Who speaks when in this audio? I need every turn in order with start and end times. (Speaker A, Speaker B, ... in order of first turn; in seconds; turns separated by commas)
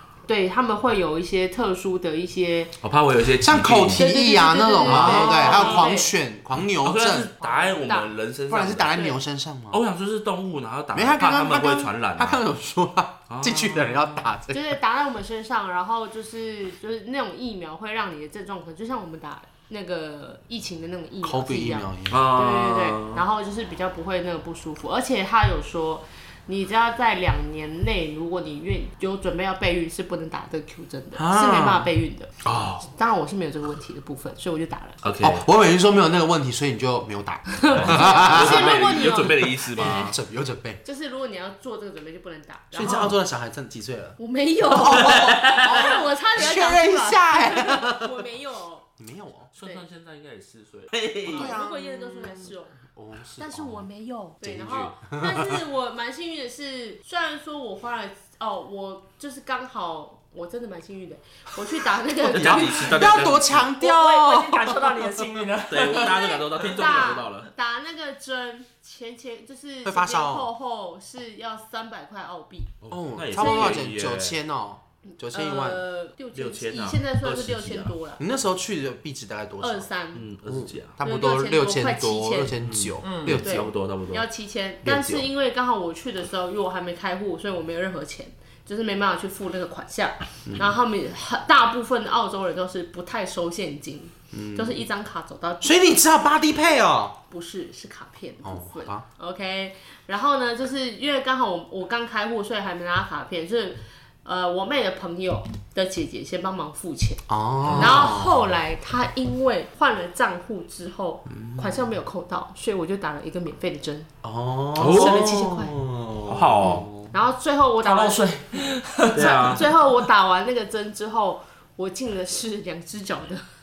Speaker A: 0.3-2.7, Speaker B: 2.8-4.1, Speaker C: 3.4-7.3, Speaker A: 4.0-6.1, Speaker B: 4.8-5.4, Speaker D: 5.3-5.9, Speaker B: 6.8-9.1, Speaker D: 7.4-7.9, Speaker A: 7.8-8.1, Speaker C: 8.5-9.8, Speaker B: 9.7-12.4, Speaker C: 10.9-14.8, Speaker B: 13.3-14.3, Speaker A: 14.5-35.0, Speaker C: 21.2-22.2, Speaker B: 22.1-23.2, Speaker C: 31.1-31.9, Speaker B: 32.4-32.8, Speaker B: 35.0-35.4, Speaker C: 35.2-39.0, Speaker A: 37.5-40.1, Speaker B: 37.7-40.1, Speaker C: 39.7-40.8, Speaker A: 40.8-43.1, Speaker C: 42.7-44.2, Speaker A: 44.2-48.9, Speaker C: 44.7-48.1, Speaker B: 45.0-45.8, Speaker C: 49.0-49.5, Speaker B: 49.6-51.5, Speaker A: 51.2-52.8, Speaker C: 51.2-53.9, Speaker A: 53.4-63.2, Speaker C: 54.4-55.6, Speaker B: 62.3-63.7, Speaker C: 62.3-65.5, Speaker D: 63.8-66.4, Speaker B: 65.7-67.5, Speaker A: 65.8-72.7, Speaker C: 69.8-70.5, Speaker B: 72.8-74.4, Speaker C: 72.9-75.8, Speaker A: 73.3-73.8, Speaker A: 75.2-78.2, Speaker B: 76.3-78.0, Speaker C: 78.2-79.9, Speaker A: 79.6-80.2, Speaker B: 80.2-80.9, Speaker C: 80.5-83.7, Speaker A: 81.0-82.6, Speaker B: 82.7-84.3, Speaker D: 83.0-83.4, Speaker A: 83.4-96.0, Speaker C: 84.8-85.3, Speaker C: 94.3-94.8, Speaker C: 95.6-97.2, Speaker A: 97.3-114.1, Speaker C: 98.4-99.0, Speaker C: 107.3-108.5, Speaker B: 107.7-108.1, Speaker C: 111.3-111.8, Speaker C: 114.2-117.0, Speaker B: 114.8-115.3, Speaker A: 114.8-115.8, Speaker B: 116.3-116.9, Speaker A: 117.1-118.3, Speaker D: 117.8-119.6, Speaker B: 119.1-119.6, Speaker A: 119.1-123.5